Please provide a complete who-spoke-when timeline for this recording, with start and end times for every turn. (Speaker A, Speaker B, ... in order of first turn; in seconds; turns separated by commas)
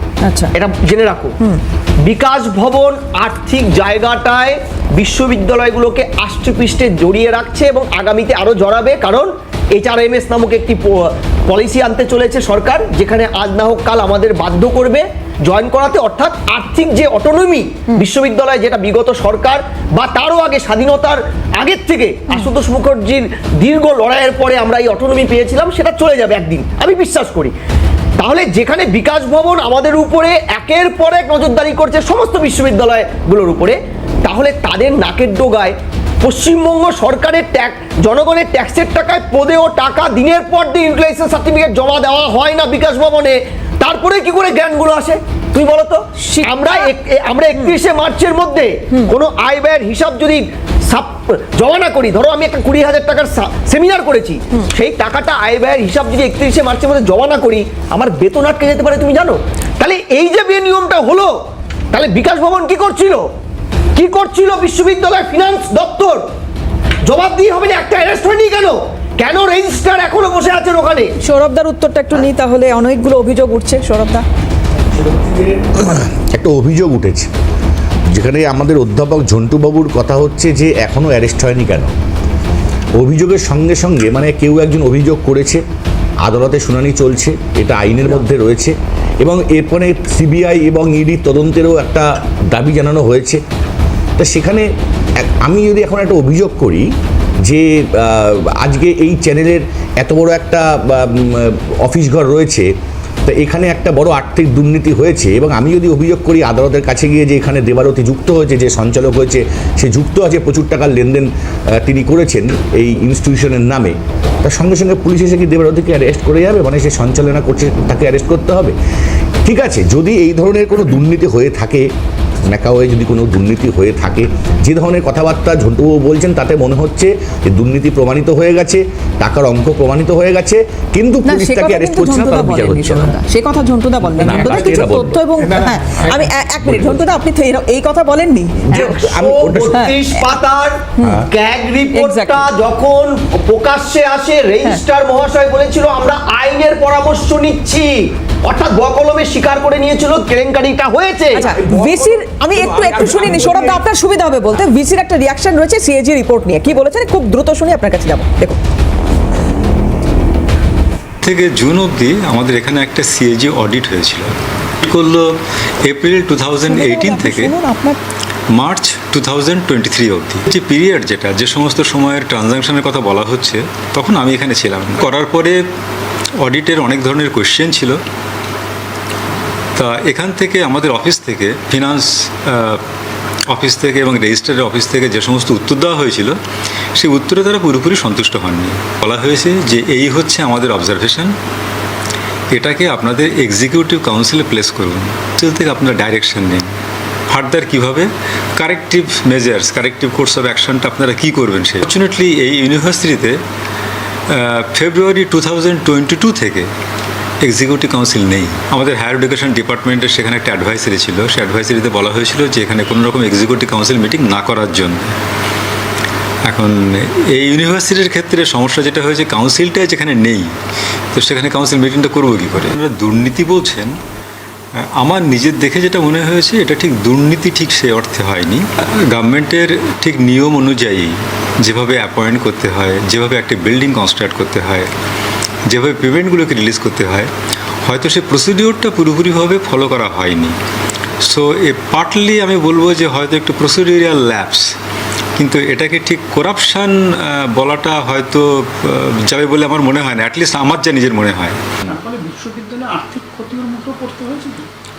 Speaker A: 0.2-0.5, Speaker B: 0.5-1.3, Speaker B: 2.0-27.5, Speaker B: 28.2-61.4, Speaker A: 46.2-46.9, Speaker B: 61.9-63.3, Speaker B: 63.9-66.2, Speaker B: 67.0-71.1, Speaker A: 71.2-74.2, Speaker C: 74.9-77.3, Speaker C: 78.1-81.9, Speaker C: 83.0-85.6, Speaker C: 86.2-93.4, Speaker C: 94.2-96.9, Speaker C: 97.4-102.7, Speaker C: 103.2-118.8, Speaker C: 119.4-121.8, Speaker C: 122.5-133.1, Speaker A: 131.2-138.6, Speaker C: 134.2-137.0, Speaker C: 138.7-139.8, Speaker B: 138.7-151.4, Speaker A: 141.0-141.2, Speaker C: 141.0-141.3, Speaker A: 141.9-142.4, Speaker A: 151.3-158.6, Speaker C: 151.5-153.8, Speaker D: 161.2-165.3, Speaker D: 165.8-167.5, Speaker A: 166.7-168.0, Speaker D: 168.5-175.6, Speaker D: 176.4-178.0, Speaker D: 179.8-182.8, Speaker D: 183.5-186.4, Speaker D: 186.9-191.3, Speaker D: 192.5-196.7, Speaker D: 197.3-203.4, Speaker D: 204.3-206.7, Speaker D: 207.4-215.2, Speaker D: 216.5-220.5, Speaker D: 221.1-223.9, Speaker D: 224.8-234.9, Speaker D: 235.7-237.3, Speaker D: 237.8-240.6, Speaker D: 241.2-244.7, Speaker D: 245.3-251.6, Speaker E: 251.8-254.7